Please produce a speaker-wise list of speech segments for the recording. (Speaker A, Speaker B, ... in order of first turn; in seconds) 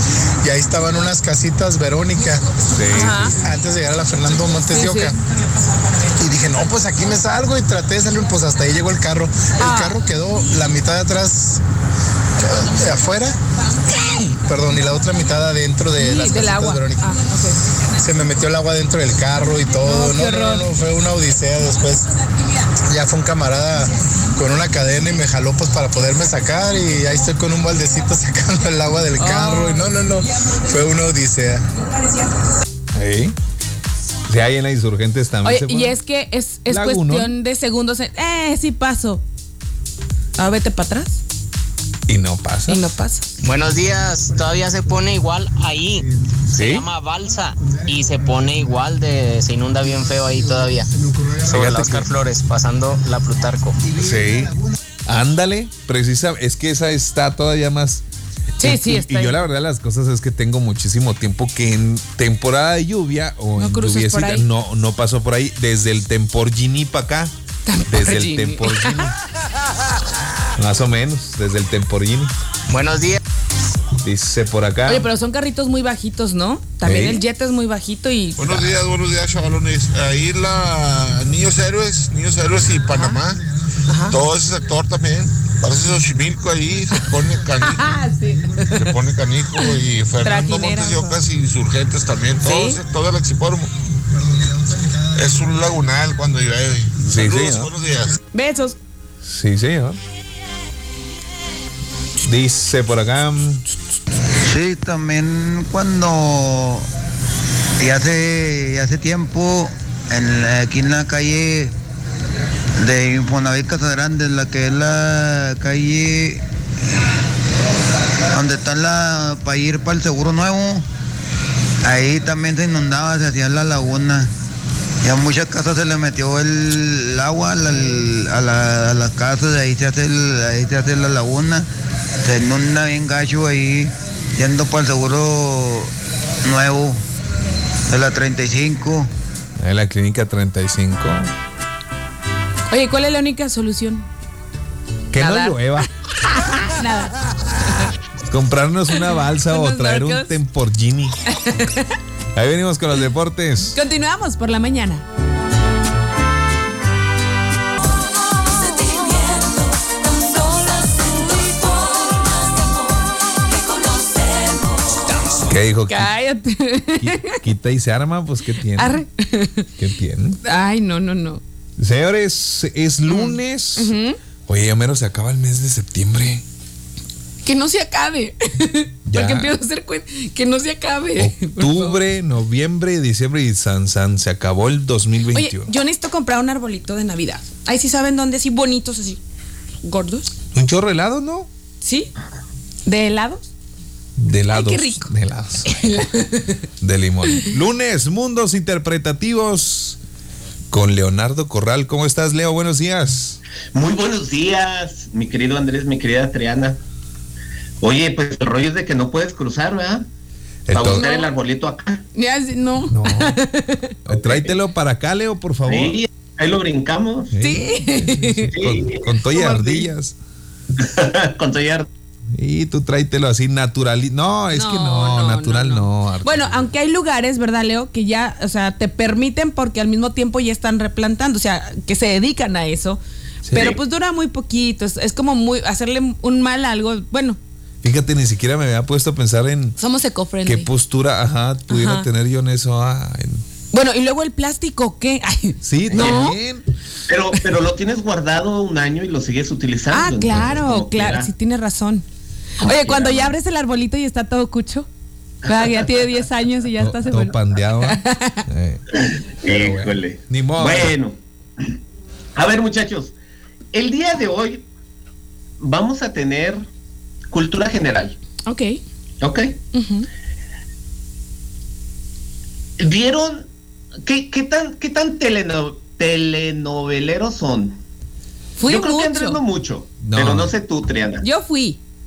Speaker A: 0.4-2.5, 3.2-5.2, 6.2-11.6, 12.4-13.4, 14.2-17.1, 18.0-22.1, 22.9-31.6, 51.1-51.7, 54.2-54.5
Speaker B: 2.7-3.4, 32.9-33.4, 34.3-36.0, 36.7-37.3, 42.1-42.9, 46.5-46.9, 54.0-54.5, 55.1-58.0, 58.6-67.3, 67.9-69.2, 70.6-72.3, 74.0-75.1, 76.8-77.2, 97.0-97.7, 99.2-100.0, 102.2-103.7, 139.6-141.3, 145.1-145.9, 148.3-151.2, 152.3-153.8, 165.4-166.1, 167.0-169.0, 169.8-170.4, 171.8-173.9, 174.5-176.4, 179.1-179.5, 181.2-185.7, 190.5-191.5, 194.2-196.1, 196.8-200.0, 200.7-203.4, 210.7-211.1, 212.9-213.4, 214.1-216.0, 217.3-220.2, 222.3-226.7, 237.8-239.8, 240.4-243.4, 245.6-246.6, 256.8-258.8, 259.4-260.9, 280.0-280.5
Speaker C: 2.9-3.4, 4.7-5.2, 9.6-10.0, 16.0-17.7, 19.8-20.7, 29.2-30.0, 35.4-39.2, 40.4-41.2, 42.7-43.3, 58.6-59.4, 63.6-64.5, 67.7-69.0, 74.9-78.7, 83.9-84.2, 87.6-88.7, 90.2-91.2, 92.4-92.8, 98.3-98.8, 142.7-144.1, 145.2-147.9, 149.0-150.4, 151.3-152.0, 153.7-155.1, 158.6-159.6, 160.3-162.2, 163.5-167.3, 168.8-169.7, 170.4-171.4, 173.1-174.2, 177.4-182.0, 185.3-189.2, 189.8-190.3, 191.8-192.1, 192.8-193.5, 194.5-195.1, 195.7-196.7, 210.8-211.3, 212.1-213.9, 217.4-218.6, 224.5-237.4, 239.8-240.7, 241.7-242.1, 243.7-246.4, 249.9-252.1, 252.6-254.9, 255.4-258.4, 268.5-268.8, 269.7-270.1, 278.6-279.4, 281.2-281.8
Speaker D: 43.4-50.9, 51.4-53.8, 72.7-73.2
Speaker E: 78.4-83.4, 84.0-88.0, 88.7-93.7, 95.1-98.2
Speaker F: 104.5-106.8, 107.8-111.7, 112.8-116.4, 118.3-120.8, 121.8-124.3, 125.0-131.7, 132.2-135.9, 136.5-137.0, 137.9-139.1
Speaker G: 203.7-206.8, 207.8-210.1, 210.7-212.0, 214.1-214.6, 215.7-217.3, 218.6-219.9, 220.8-221.9, 233.5-233.8, 245.9-246.3, 247.1-251.3, 252.6-253.3, 259.0-261.2, 262.4-263.1, 263.7-264.7, 265.6-266.7, 267.3-268.2, 269.2-269.6, 272.8-273.5, 274.1-277.8, 278.6-281.2